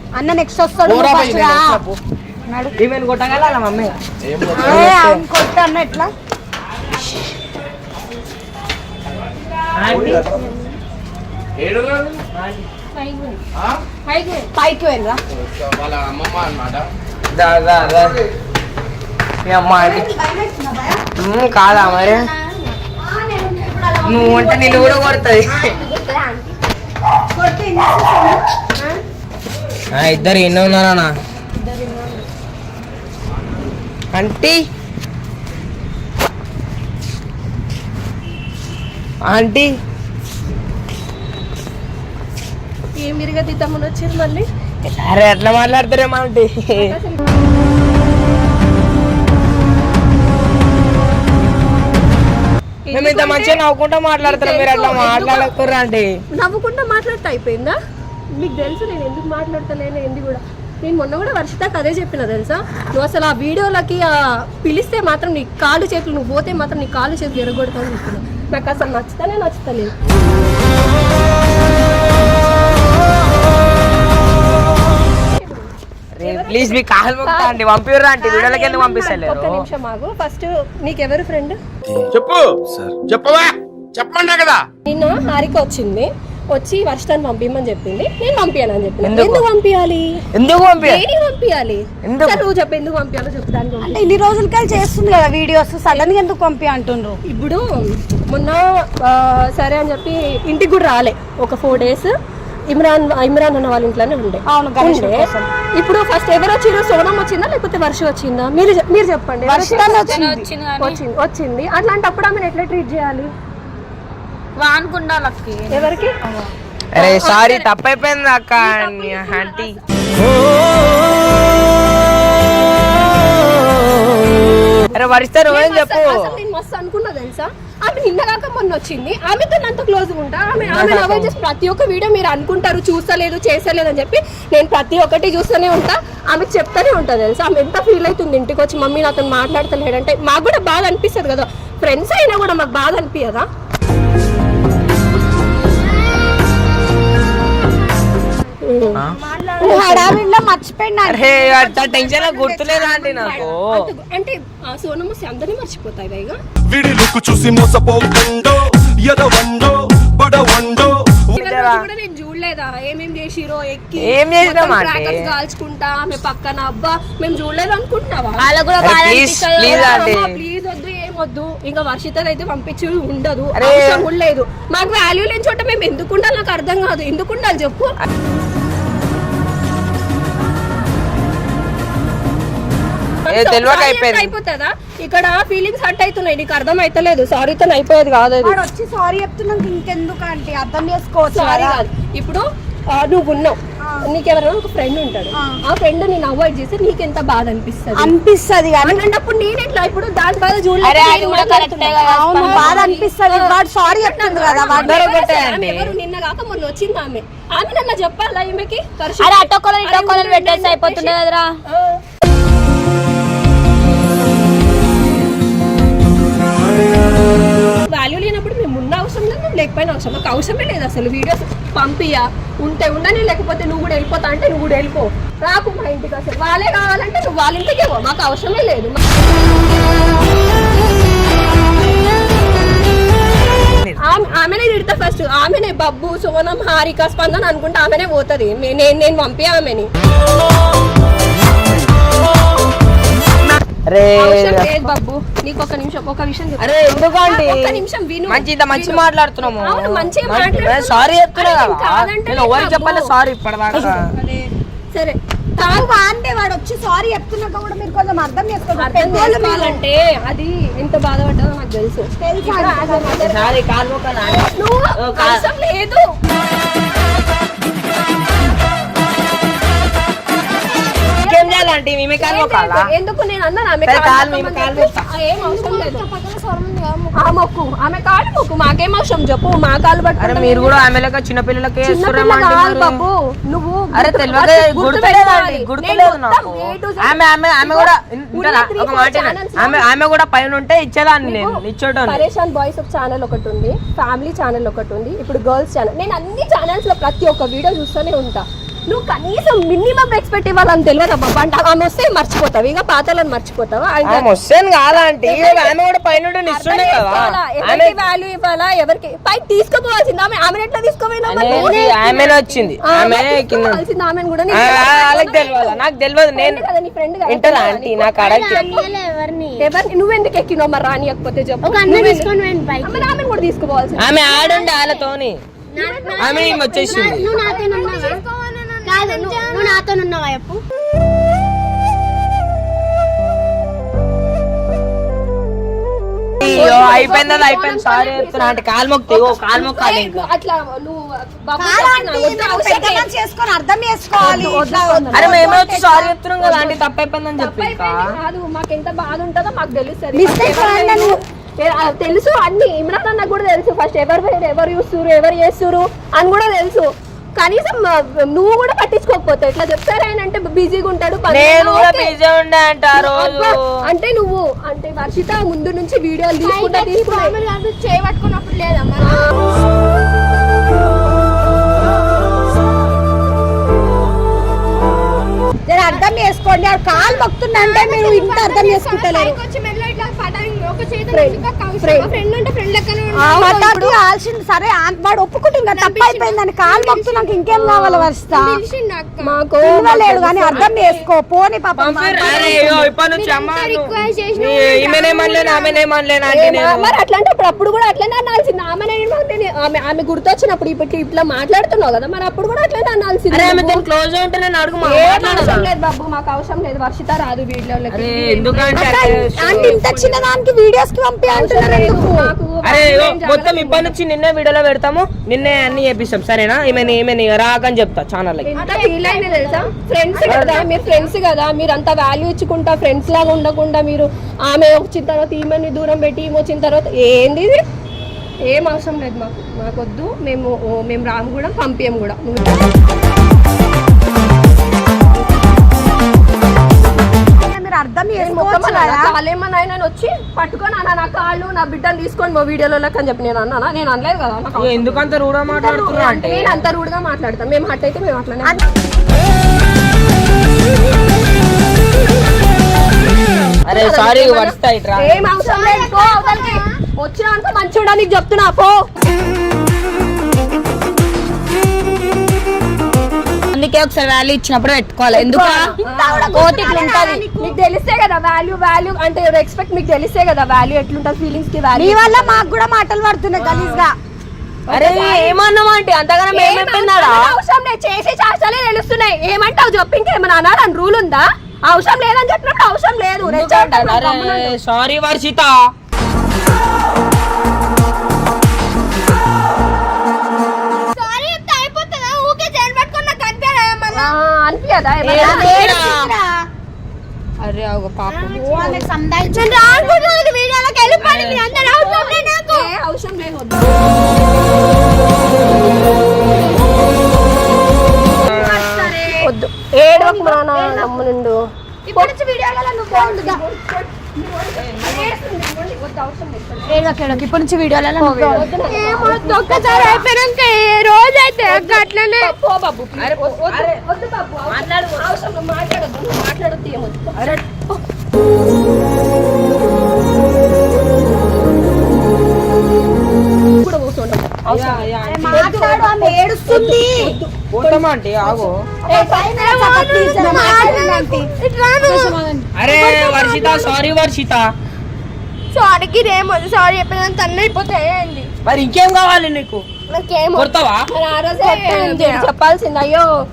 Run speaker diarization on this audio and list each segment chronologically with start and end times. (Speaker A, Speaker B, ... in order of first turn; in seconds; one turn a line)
Speaker A: 0.1-1.8
Speaker B: 0.8-2.0
Speaker C: 2.8-3.9
Speaker B: 4.2-4.9
Speaker A: 4.5-6.1
Speaker C: 4.6-5.2
Speaker C: 9.8-10.2
Speaker B: 9.9-10.2
Speaker B: 11.6-12.2
Speaker C: 12.3-12.7
Speaker D: 12.9-13.4
Speaker A: 14.5-15.2
Speaker B: 15.3-16.9
Speaker C: 17.3-18.2
Speaker C: 19.4-20.1
Speaker A: 19.7-21.0
Speaker C: 21.2-22.3
Speaker A: 21.7-22.3
Speaker A: 22.9-26.4
Speaker C: 24.0-25.6
Speaker A: 27.3-28.9
Speaker C: 29.9-31.1
Speaker A: 31.7-32.0
Speaker C: 34.1-34.6
Speaker C: 39.3-39.7
Speaker D: 43.0-44.5
Speaker C: 44.9-46.9
Speaker D: 46.7-47.2
Speaker D: 52.9-53.6
Speaker C: 52.9-56.0
Speaker D: 54.2-55.5
Speaker D: 56.4-57.8
Speaker D: 58.4-69.9
Speaker D: 75.2-75.7
Speaker C: 76.2-79.7
Speaker D: 76.2-77.5
Speaker D: 78.2-81.6
Speaker E: 82.1-84.6
Speaker D: 84.8-90.2
Speaker C: 89.0-89.4
Speaker C: 90.3-91.0
Speaker D: 90.8-94.0
Speaker C: 92.0-92.4
Speaker A: 93.8-97.2
Speaker D: 97.3-102.1
Speaker D: 102.7-105.2
Speaker A: 104.5-105.5
Speaker D: 105.8-110.2
Speaker A: 109.4-110.5
Speaker F: 110.1-111.0
Speaker D: 110.8-113.3
Speaker F: 114.6-115.9
Speaker D: 115.7-116.1
Speaker D: 116.9-117.7
Speaker C: 116.9-119.7
Speaker D: 118.6-119.8
Speaker D: 124.9-143.4
Speaker C: 124.9-126.3
Speaker C: 130.6-131.3
Speaker D: 148.6-149.0
Speaker G: 149.2-149.6
Speaker D: 149.6-150.1
Speaker A: 149.6-151.7
Speaker C: 151.1-153.9
Speaker D: 151.4-156.4
Speaker H: 156.7-161.4
Speaker D: 161.3-177.9
Speaker C: 161.4-161.8
Speaker C: 164.0-165.3
Speaker F: 168.4-169.7
Speaker C: 168.8-170.3
Speaker C: 173.6-174.0
Speaker D: 183.2-188.6
Speaker C: 183.3-184.3
Speaker A: 188.4-191.8
Speaker D: 191.3-198.1
Speaker A: 197.9-199.1
Speaker D: 198.8-212.0
Speaker F: 200.8-202.5
Speaker A: 202.1-205.1
Speaker C: 204.7-205.9
Speaker F: 209.2-211.6
Speaker D: 217.9-229.0
Speaker D: 234.0-239.9
Speaker C: 243.5-244.9
Speaker D: 244.2-253.1
Speaker C: 246.6-254.0
Speaker D: 253.7-254.2
Speaker A: 255.6-259.8
Speaker D: 258.8-263.5
Speaker A: 262.1-263.4
Speaker C: 263.2-265.4
Speaker D: 264.2-266.1
Speaker D: 271.2-271.7
Speaker C: 271.3-272.9
Speaker D: 272.2-276.0
Speaker C: 273.9-275.1
Speaker G: 275.4-277.1
Speaker D: 277.2-280.8
Speaker C: 280.2-283.0
Speaker D: 281.8-289.9
Speaker C: 283.9-292.2
Speaker D: 291.2-304.3
Speaker C: 304.1-308.0
Speaker D: 305.2-305.7
Speaker D: 306.5-315.8
Speaker C: 311.3-313.8
Speaker C: 314.5-316.6
Speaker D: 316.3-318.9
Speaker C: 317.3-318.7
Speaker G: 318.2-319.5
Speaker D: 319.6-324.2
Speaker G: 321.6-322.3
Speaker C: 324.0-325.4
Speaker G: 324.4-325.0
Speaker G: 325.7-330.6
Speaker D: 325.8-328.2
Speaker C: 326.2-327.3
Speaker D: 329.0-329.7
Speaker C: 336.4-340.2
Speaker D: 336.4-343.1
Speaker A: 341.6-346.1
Speaker D: 344.2-345.8
Speaker C: 345.1-348.1
Speaker D: 346.4-346.8
Speaker D: 347.4-362.1
Speaker A: 350.1-351.2
Speaker C: 361.3-363.5
Speaker D: 362.9-367.4
Speaker G: 366.4-369.3
Speaker A: 375.6-379.4
Speaker G: 376.9-383.9
Speaker D: 381.1-382.1
Speaker A: 383.1-388.6
Speaker G: 385.7-389.4
Speaker D: 389.2-390.7
Speaker A: 389.6-392.9
Speaker G: 390.5-391.0
Speaker C: 391.8-396.9
Speaker G: 392.2-395.8
Speaker D: 396.3-403.8
Speaker C: 403.3-405.7
Speaker D: 404.8-410.3
Speaker C: 407.9-409.8
Speaker A: 408.7-412.3
Speaker D: 411.3-413.9
Speaker C: 412.6-418.5
Speaker D: 418.5-427.6
Speaker A: 418.6-421.1
Speaker G: 418.8-419.4
Speaker C: 420.3-420.6
Speaker D: 428.5-432.7
Speaker A: 437.4-439.1
Speaker D: 438.2-448.6
Speaker C: 444.6-446.6
Speaker C: 453.7-455.2
Speaker D: 453.7-458.7
Speaker A: 455.3-456.7
Speaker F: 463.5-465.8
Speaker D: 465.1-466.7
Speaker A: 465.8-467.6
Speaker F: 466.3-467.2
Speaker D: 467.4-472.5
Speaker A: 471.7-473.9
Speaker C: 473.4-473.8
Speaker D: 474.7-475.4
Speaker C: 474.7-477.4
Speaker D: 476.3-484.5
Speaker C: 483.2-485.6
Speaker G: 490.9-494.1
Speaker D: 493.9-495.8
Speaker C: 495.1-496.1
Speaker A: 495.1-496.3
Speaker C: 497.4-497.9
Speaker G: 498.1-502.7
Speaker A: 498.3-501.0
Speaker C: 501.0-501.5
Speaker D: 501.4-503.8
Speaker C: 508.3-508.9
Speaker A: 508.3-509.2
Speaker D: 509.2-511.4
Speaker A: 509.9-510.9
Speaker G: 510.1-510.4
Speaker A: 511.9-513.4
Speaker D: 512.9-516.9
Speaker C: 514.6-515.1
Speaker A: 516.7-519.2
Speaker D: 518.3-520.1
Speaker G: 518.6-522.3
Speaker D: 521.5-527.8
Speaker C: 523.0-523.8
Speaker C: 524.5-524.9
Speaker D: 533.6-539.0
Speaker C: 534.5-535.5
Speaker A: 535.0-536.9
Speaker C: 537.5-538.5
Speaker A: 538.9-541.3
Speaker G: 538.9-543.7
Speaker D: 540.1-541.0
Speaker A: 541.8-542.1
Speaker C: 542.5-544.5
Speaker G: 545.5-548.3
Speaker C: 548.5-549.6
Speaker G: 549.9-550.5
Speaker C: 550.4-550.9
Speaker D: 550.9-553.1
Speaker G: 551.4-552.3